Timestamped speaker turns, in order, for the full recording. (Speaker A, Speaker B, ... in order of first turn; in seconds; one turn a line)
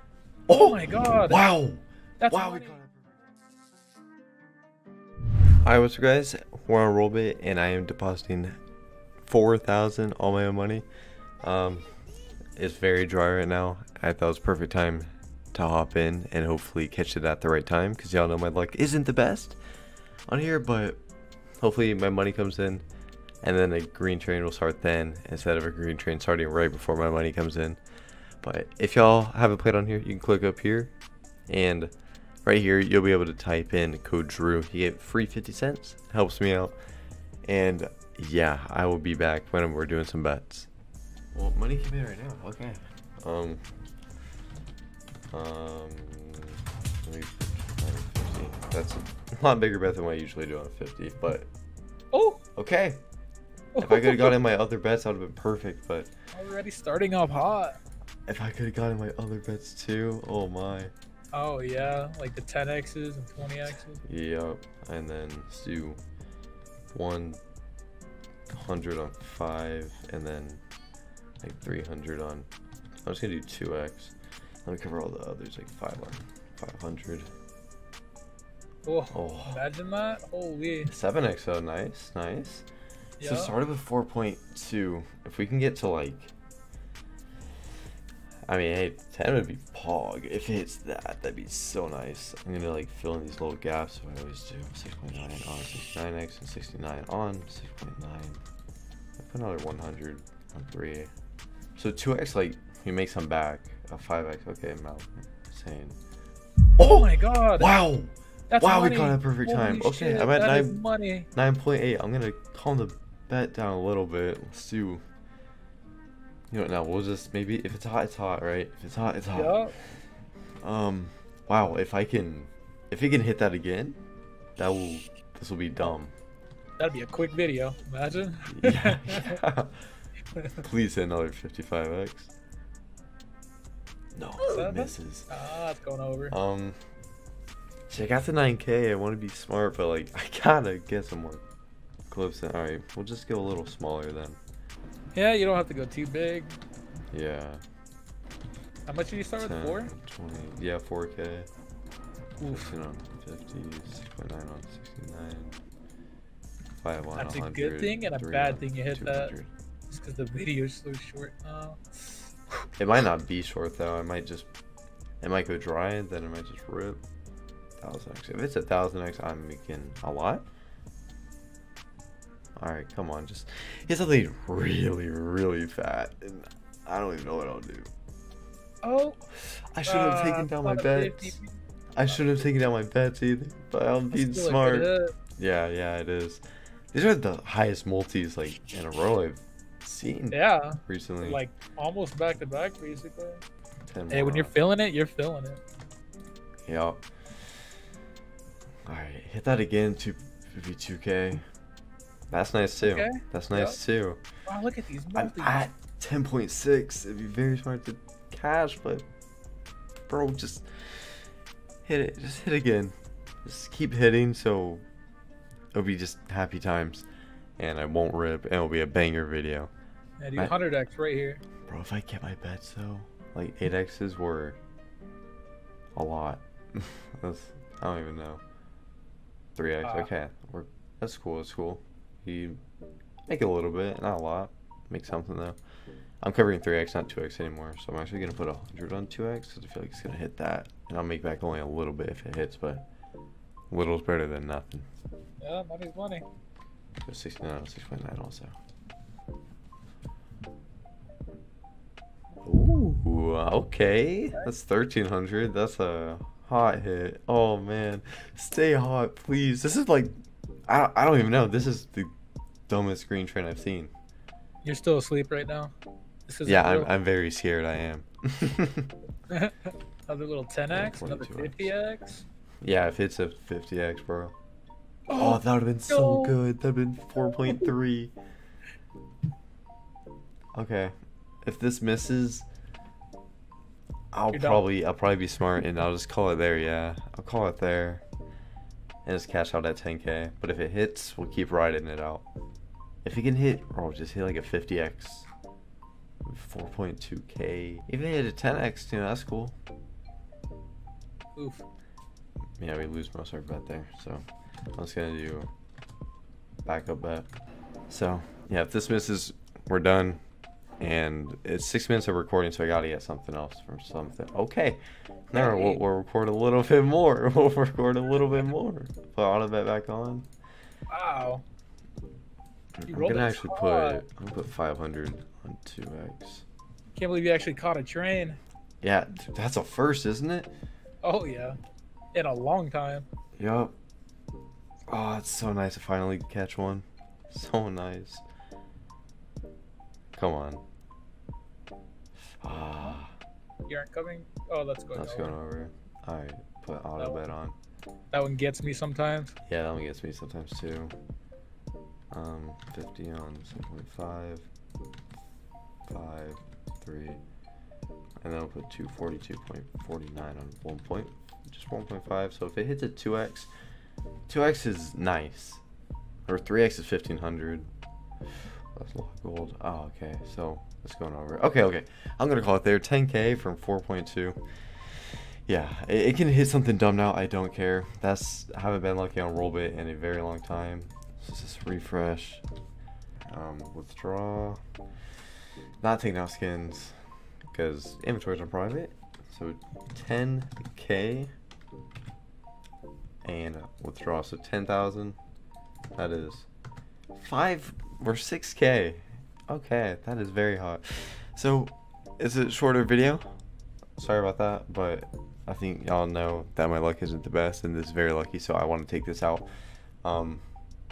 Speaker A: 0.5-3.1
Speaker B: 0.6-1.4
Speaker B: 2.2-2.8
Speaker A: 5.6-8.6
Speaker A: 9.2-10.9
Speaker A: 11.4-11.9
Speaker A: 12.6-19.6
Speaker A: 20.3-21.0
Speaker A: 21.6-22.8
Speaker A: 23.4-27.8
Speaker A: 28.4-30.9
Speaker A: 31.5-31.9
Speaker A: 32.5-36.8
Speaker A: 37.5-40.7
Speaker A: 41.3-43.6
Speaker A: 45.3-51.5
Speaker B: 52.1-52.4
Speaker A: 52.6-53.0
Speaker B: 53.8-54.4
Speaker A: 53.8-56.1
Speaker B: 56.3-57.8
Speaker A: 58.3-60.9
Speaker B: 61.3-64.0
Speaker A: 64.0-66.0
Speaker A: 66.9-67.4
Speaker A: 68.5-70.6
Speaker A: 71.4-72.5
Speaker A: 73.0-74.1
Speaker A: 74.7-77.3
Speaker B: 78.8-80.9
Speaker A: 79.1-79.6
Speaker A: 80.9-82.7
Speaker B: 83.2-83.5
Speaker A: 83.2-86.3
Speaker A: 88.5-98.4
Speaker A: 99.2-101.1
Speaker A: 101.8-106.0
Speaker A: 106.8-110.8
Speaker B: 106.8-107.7
Speaker B: 108.5-111.3
Speaker A: 111.3-115.0
Speaker A: 116.5-119.7
Speaker B: 119.3-119.8
Speaker A: 120.6-124.0
Speaker A: 124.6-126.1
Speaker B: 126.8-129.4
Speaker A: 128.5-129.9
Speaker B: 130.3-130.6
Speaker A: 130.6-132.3
Speaker A: 134.1-135.3
Speaker B: 134.4-136.4
Speaker A: 136.3-136.8
Speaker A: 137.9-141.4
Speaker A: 142.1-144.4
Speaker B: 145.1-146.6
Speaker A: 147.1-147.6
Speaker B: 148.9-149.9
Speaker A: 149.4-151.5
Speaker B: 152.4-152.7
Speaker A: 152.5-155.6
Speaker A: 156.8-159.5
Speaker B: 157.1-159.3
Speaker B: 159.9-162.3
Speaker A: 162.8-164.5
Speaker A: 165.2-167.0
Speaker A: 167.8-170.4
Speaker A: 172.6-177.9
Speaker B: 178.8-179.2
Speaker A: 179.4-181.4
Speaker B: 179.8-181.6
Speaker A: 181.9-186.4
Speaker B: 184.1-185.1
Speaker A: 186.9-191.4
Speaker B: 190.3-193.4
Speaker A: 193.9-194.5
Speaker B: 194.1-195.6
Speaker A: 196.7-197.1
Speaker A: 198.9-201.4
Speaker A: 202.3-204.2
Speaker B: 202.8-203.8
Speaker B: 204.5-205.7
Speaker A: 205.1-209.1
Speaker A: 210.1-211.1
Speaker A: 211.8-214.8
Speaker A: 215.7-217.1
Speaker A: 217.6-219.7
Speaker B: 220.2-221.4
Speaker A: 221.7-224.6
Speaker A: 226.0-228.4
Speaker A: 229.6-232.6
Speaker B: 229.8-230.1
Speaker A: 233.3-235.6
Speaker A: 236.2-242.9
Speaker A: 243.7-244.9
Speaker B: 245.4-246.3
Speaker A: 247.0-248.5
Speaker A: 252.4-260.1
Speaker A: 260.7-262.1
Speaker A: 262.7-263.9
Speaker B: 264.6-265.7
Speaker B: 266.3-266.9
Speaker A: 266.4-268.9
Speaker B: 269.3-272.2
Speaker A: 270.7-271.7
Speaker A: 272.6-274.3
Speaker B: 275.1-276.4
Speaker A: 275.1-278.1
Speaker A: 280.5-282.5
Speaker A: 284.1-288.0
Speaker B: 284.3-284.6
Speaker A: 289.1-292.2
Speaker A: 293.0-295.3
Speaker A: 296.2-299.6
Speaker B: 301.4-301.7
Speaker A: 302.6-304.2
Speaker A: 304.8-305.5
Speaker A: 306.6-307.3
Speaker A: 307.9-310.2
Speaker A: 310.8-320.3
Speaker B: 315.3-315.8
Speaker B: 320.9-321.4
Speaker A: 322.8-326.5
Speaker B: 322.9-324.0
Speaker B: 326.9-328.4
Speaker A: 328.8-330.5
Speaker B: 331.0-331.6
Speaker B: 332.1-333.1
Speaker A: 333.4-333.7
Speaker A: 334.9-338.2
Speaker A: 340.1-340.6
Speaker A: 342.4-343.2
Speaker B: 343.7-345.4
Speaker A: 344.9-347.6
Speaker B: 348.1-349.4
Speaker A: 349.5-350.9
Speaker A: 352.1-354.5
Speaker A: 355.9-357.2
Speaker A: 358.2-363.5
Speaker A: 364.3-365.6
Speaker A: 366.3-367.7
Speaker A: 368.7-374.4
Speaker A: 375.5-382.4
Speaker A: 383.3-384.6
Speaker A: 385.8-391.3
Speaker A: 393.2-395.2
Speaker A: 396.0-396.5
Speaker A: 397.1-403.3
Speaker A: 404.0-409.5
Speaker A: 410.0-410.4